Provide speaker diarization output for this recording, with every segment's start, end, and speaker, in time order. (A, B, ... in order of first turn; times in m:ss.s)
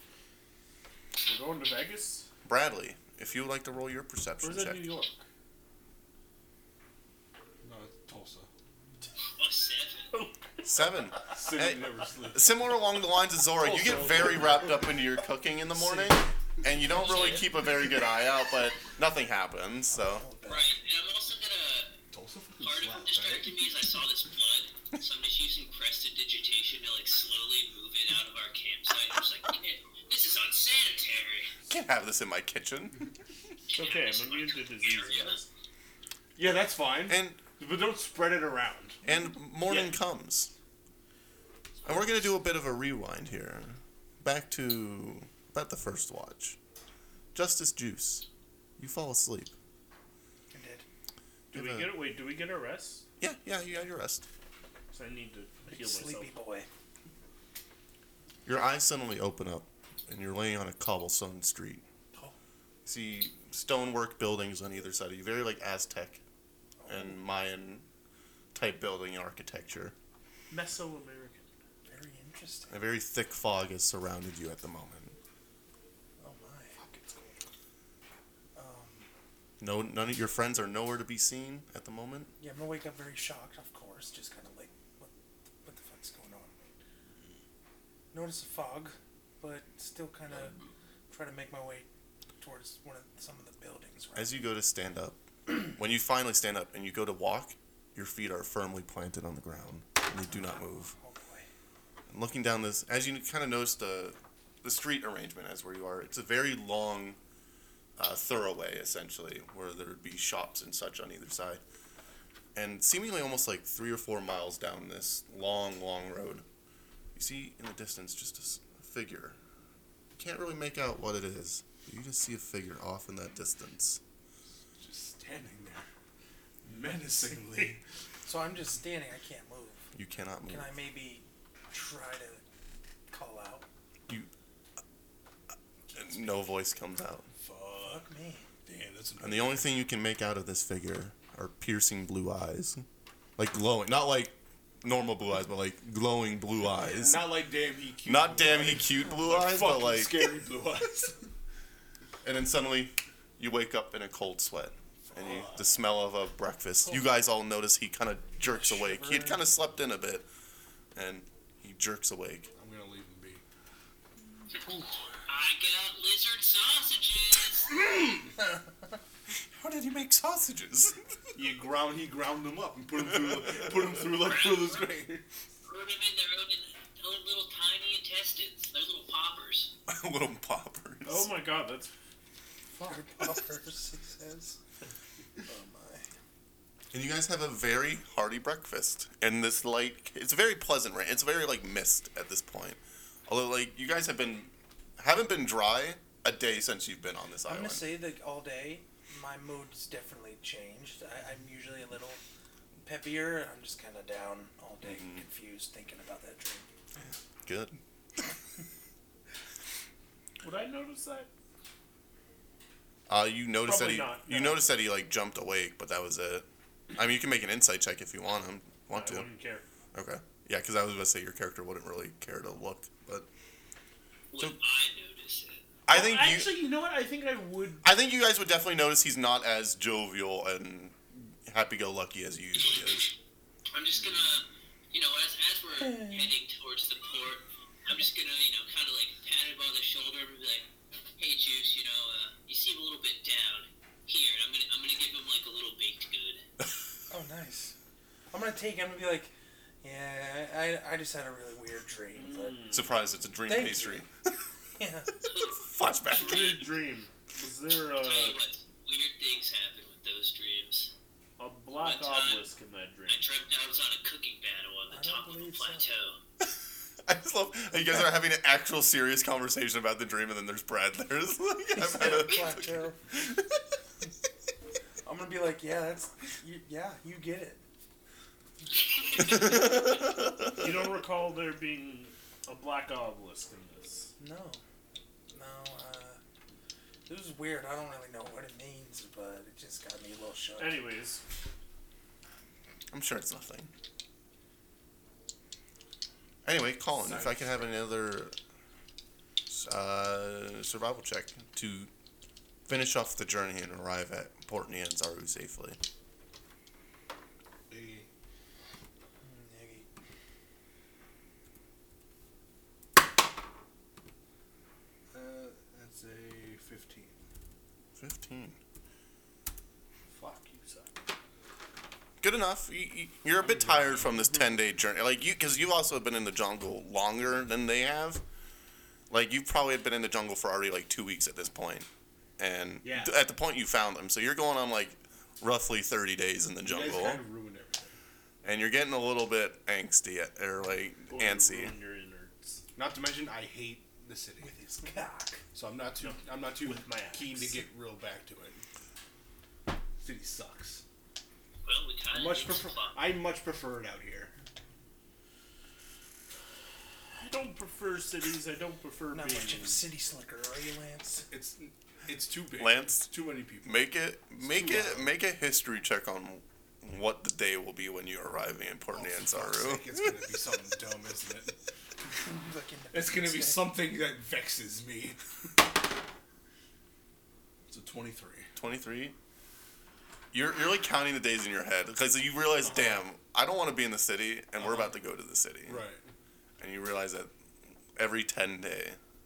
0:01.2-0:02.3 A
0:02.4-0:04.9 B
0:04.4-0:05.2 A
0:07.6-0:08.5 C
0:09.4-0:10.1 D
0:10.1-0:11.2 A
0:10.6-0:20.2 B
0:11.3-0:12.5 C
0:13.6-0:14.5 A
0:14.0-0:14.7 C
0:17.0-0:17.5 A
0:20.1-0:20.7 E
0:20.4-0:22.0 D
0:22.1-0:23.5 C
0:22.6-0:31.5 D
0:31.7-0:33.1 B
0:33.7-0:35.4 D
0:33.7-0:35.5 A
0:36.4-0:39.0 C
0:37.0-0:37.4 B
0:39.0-0:40.5 B
0:39.7-0:39.9 A
0:41.8-0:46.6 B
0:47.3-0:48.2 B
0:48.8-0:49.5 B
0:50.5-0:50.8 E
0:51.5-0:52.1 B
0:51.5-0:53.0 A
0:53.2-0:54.2 B
0:54.9-0:56.3 A
0:55.7-0:56.7 E
0:58.4-1:01.8 B
1:02.8-1:06.2 B
1:06.8-1:07.2 E
1:06.9-1:07.8 B
1:08.5-1:09.9 B
1:10.5-1:11.4 A
1:11.9-1:12.8 E
1:12.7-1:15.2 B
1:16.2-1:16.8 E
1:16.8-1:17.3 A
1:18.5-1:19.1 E
1:19.6-1:22.3 B
1:22.4-1:25.1 E
1:25.6-1:26.6 E
1:28.1-1:30.5 E
1:31.1-1:31.9 E
1:32.4-1:34.4 E
1:34.1-1:40.9 B
1:40.3-1:41.5 E
1:42.1-1:47.2 B
1:48.0-1:51.6 B
1:52.5-1:56.4 B
1:57.1-1:59.4 B
2:00.2-2:04.0 B
2:04.8-2:05.9 C
2:06.6-2:07.8 C
2:08.2-2:09.8 E
2:09.9-2:10.7 B
2:10.5-2:12.4 E
2:13.1-2:13.7 E
2:15.9-2:17.3 B
2:17.4-2:18.1 C
2:17.8-2:18.5 E
2:18.6-2:19.7 C
2:19.2-2:22.8 B
2:23.4-2:27.3 B
2:26.8-2:27.2 E
2:27.0-2:31.2 C
2:28.0-2:30.3 B
2:32.2-2:40.3 B
2:35.1-2:35.6 C
2:38.4-2:39.5 E
2:40.9-2:42.5 B
2:42.5-2:43.4 C
2:45.3-2:47.7 D
2:49.5-2:51.0 B
2:51.3-2:55.2 C
2:53.1-2:54.0 B
2:54.1-2:54.9 D
2:55.6-2:59.7 D
2:59.9-3:01.3 B
3:01.0-3:01.9 A
3:02.7-3:04.6 E
3:05.4-3:06.0 E
3:06.9-3:17.9 B
3:17.4-3:22.2 E
3:22.8-3:26.7 E
3:24.8-3:25.2 B
3:27.4-3:27.8 B
3:30.4-3:31.3 A
3:33.1-3:39.3 B
3:33.6-3:34.6 A
3:38.9-3:39.6 A
3:39.9-3:43.3 B
3:44.3-3:45.6 D
3:45.9-3:46.5 B
3:45.9-3:47.9 A
3:47.8-3:53.1 B
3:53.7-4:06.4 D
4:07.1-4:07.8 E
4:08.3-4:09.3 E
4:09.8-4:12.6 E
4:12.1-4:12.9 A
4:12.7-4:14.1 B
4:13.5-4:14.0 E
4:14.8-4:15.1 E
4:15.2-4:16.7 D
4:15.6-4:16.5 B
4:16.1-4:18.4 A
4:18.0-4:20.9 D
4:21.4-4:23.3 A
4:21.7-4:22.4 D
4:23.1-4:26.2 D
4:24.9-4:25.9 E
4:27.0-4:32.5 B
4:31.7-4:33.0 E
4:35.0-4:37.6 E
4:39.2-4:40.4 B
4:40.5-4:44.1 A
4:44.2-4:44.6 E
4:45.3-4:46.2 E
4:47.1-4:50.9 E
4:50.6-4:51.2 A
4:52.9-4:53.7 B
4:56.4-4:58.3 B
4:59.5-5:01.9 B
5:02.7-5:05.8 B
5:07.7-5:08.1 C
5:09.2-5:09.9 E
5:15.1-5:17.1 C
5:18.0-5:18.6 B
5:20.2-5:20.9 A
5:22.2-5:28.2 B
5:23.6-5:24.2 A
5:29.1-5:31.9 B
5:32.4-5:37.2 B
5:32.8-5:33.1 C
5:36.6-5:38.0 C
5:38.4-5:41.7 B
5:41.1-5:42.6 A
5:42.8-5:44.6 C
5:44.4-5:45.4 E
5:45.5-5:48.6 C
5:46.0-5:47.6 A
5:50.0-5:50.8 C
5:51.6-5:53.0 D
5:52.1-5:54.3 C
5:57.1-5:59.9 A
5:59.1-6:01.3 E
6:01.3-6:05.1 C
6:02.6-6:03.1 B
6:03.6-6:10.2 B
6:08.9-6:11.6 C
6:12.2-6:13.7 E
6:12.9-6:15.2 C
6:17.7-6:18.5 C
6:18.6-6:19.2 B
6:20.3-6:25.9 B
6:22.6-6:23.0 C
6:24.6-6:25.0 C
6:25.7-6:26.0 C
6:26.6-6:27.3 B
6:27.9-6:29.0 B